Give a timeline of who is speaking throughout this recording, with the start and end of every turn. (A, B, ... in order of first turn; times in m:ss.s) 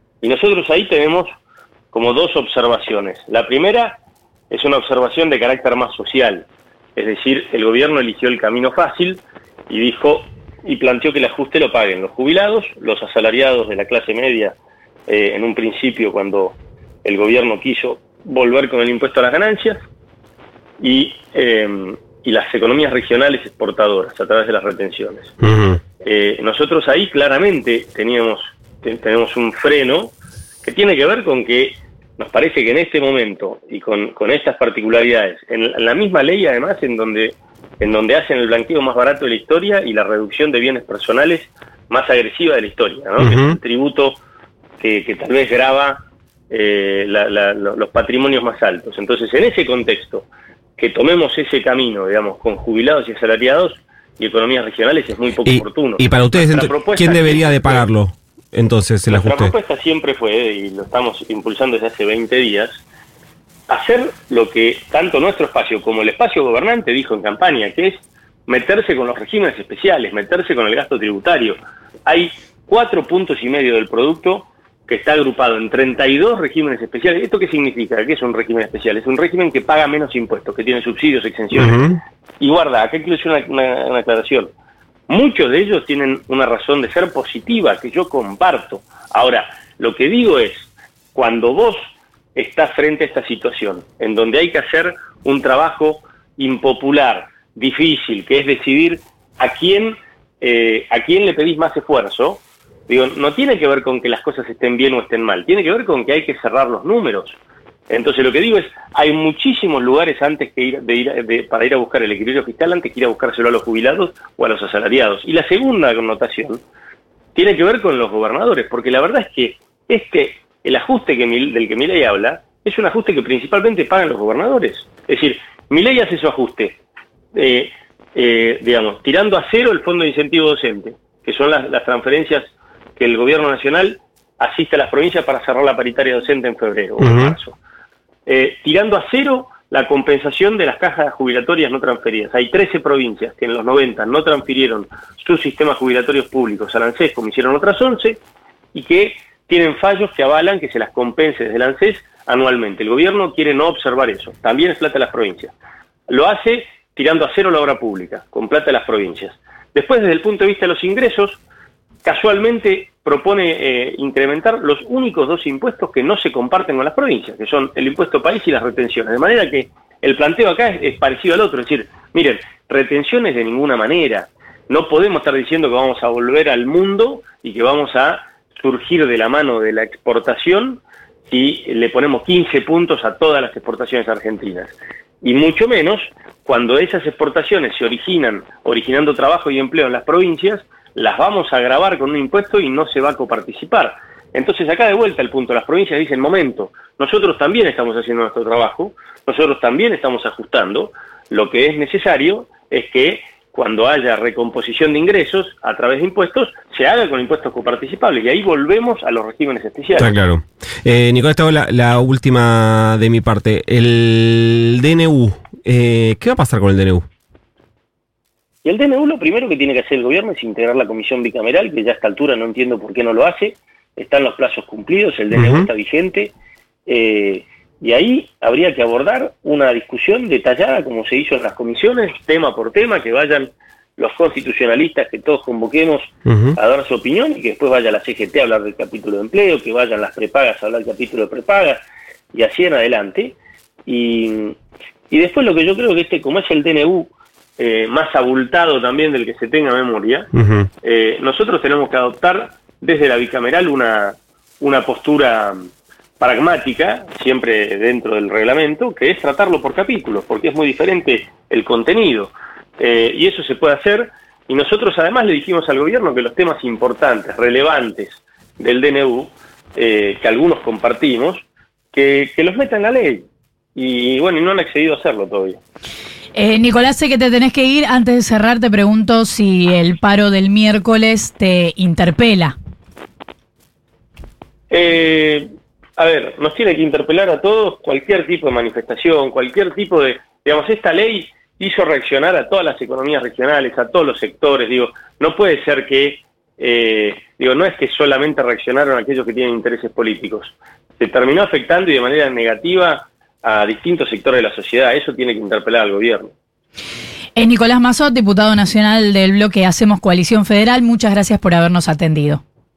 0:00.2-0:01.3 A
0:01.9-0:04.0 A
0:04.5-0:14.6 A
0:15.1-0:19.8 A
0:20.8-0:25.3 A
0:25.4-0:25.8 B
0:26.0-0:44.2 A
0:43.2-0:43.6 B
0:44.8-0:50.3 A
0:50.8-0:57.8 A
0:55.4-0:59.5 B
0:59.1-1:02.8 A
1:03.7-1:21.9 A
1:21.5-1:22.0 B
1:22.4-1:24.5 A
1:25.1-1:47.4 A
1:47.9-1:56.6 A
1:57.3-2:06.8 A
2:07.3-2:17.6 A
2:17.0-2:17.3 B
2:18.2-2:28.2 A
2:28.7-2:35.5 A
2:36.1-2:41.4 A
2:42.0-3:30.1 A
3:30.0-3:37.0 B
3:38.6-3:46.3 A
3:45.3-3:45.7 B
3:46.9-4:01.8 A
3:56.3-3:56.5 B
4:02.3-4:04.6 A
4:05.1-4:10.3 A
4:10.3-4:10.7 B
4:10.8-4:15.7 A
4:16.2-4:33.2 A
4:33.8-4:35.6 A
4:36.3-4:42.5 C
4:44.7-4:45.5 A
4:46.0-5:06.3 A
5:07.4-5:12.4 C